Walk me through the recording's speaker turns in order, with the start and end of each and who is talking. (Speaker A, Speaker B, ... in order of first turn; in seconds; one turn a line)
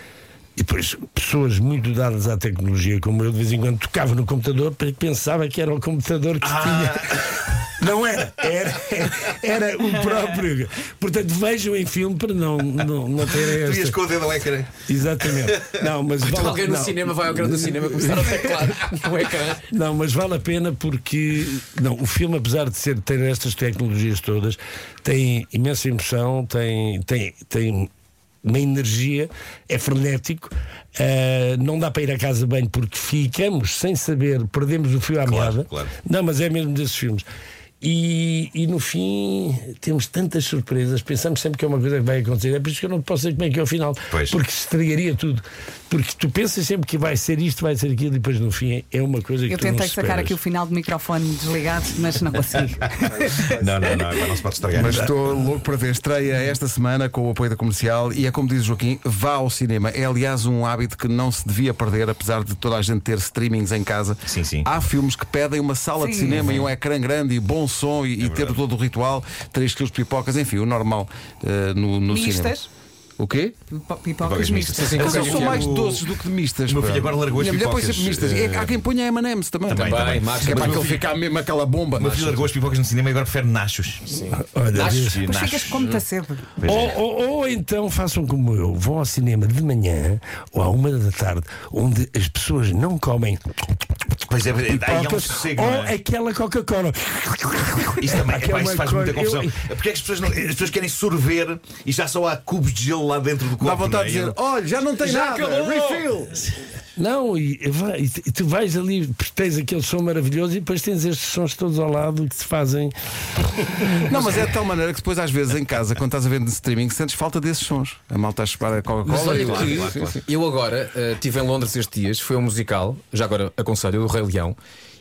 Speaker A: 0.6-14.0
Speaker B: 6.4-7.4
Speaker B: 13.3-15.8
Speaker A: 14.8-18.8
Speaker C: 16.2-19.7
Speaker A: 19.6-27.9
Speaker A: 28.4-37.3
Speaker B: 35.2-36.0
Speaker A: 37.8-50.4
Speaker B: 44.1-44.4
Speaker D: 49.5-54.3
Speaker B: 53.2-55.1
Speaker E: 54.7-72.5
Speaker A: 54.8-55.1
Speaker B: 64.3-64.7
Speaker D: 66.0-66.4
Speaker B: 66.4-66.7
Speaker B: 68.2-68.6
Speaker D: 72.1-72.7
Speaker E: 73.2-73.5
Speaker D: 73.7-75.4
Speaker B: 74.2-76.0
Speaker C: 74.7-75.7
Speaker E: 75.0-82.5
Speaker B: 76.7-78.8
Speaker C: 79.7-81.0
Speaker B: 79.7-81.0
Speaker B: 82.0-85.9
Speaker A: 84.3-85.3
Speaker C: 84.7-85.2
Speaker D: 85.2-86.5
Speaker C: 85.7-86.0
Speaker B: 86.6-87.0
Speaker A: 86.6-93.4
Speaker B: 94.2-96.0
Speaker A: 94.7-99.7
Speaker B: 98.0-104.3
Speaker A: 100.2-100.5
Speaker E: 103.6-106.4
Speaker C: 105.0-106.2
Speaker A: 107.0-114.3
Speaker E: 114.0-120.2
Speaker C: 119.0-124.6
Speaker B: 119.2-120.2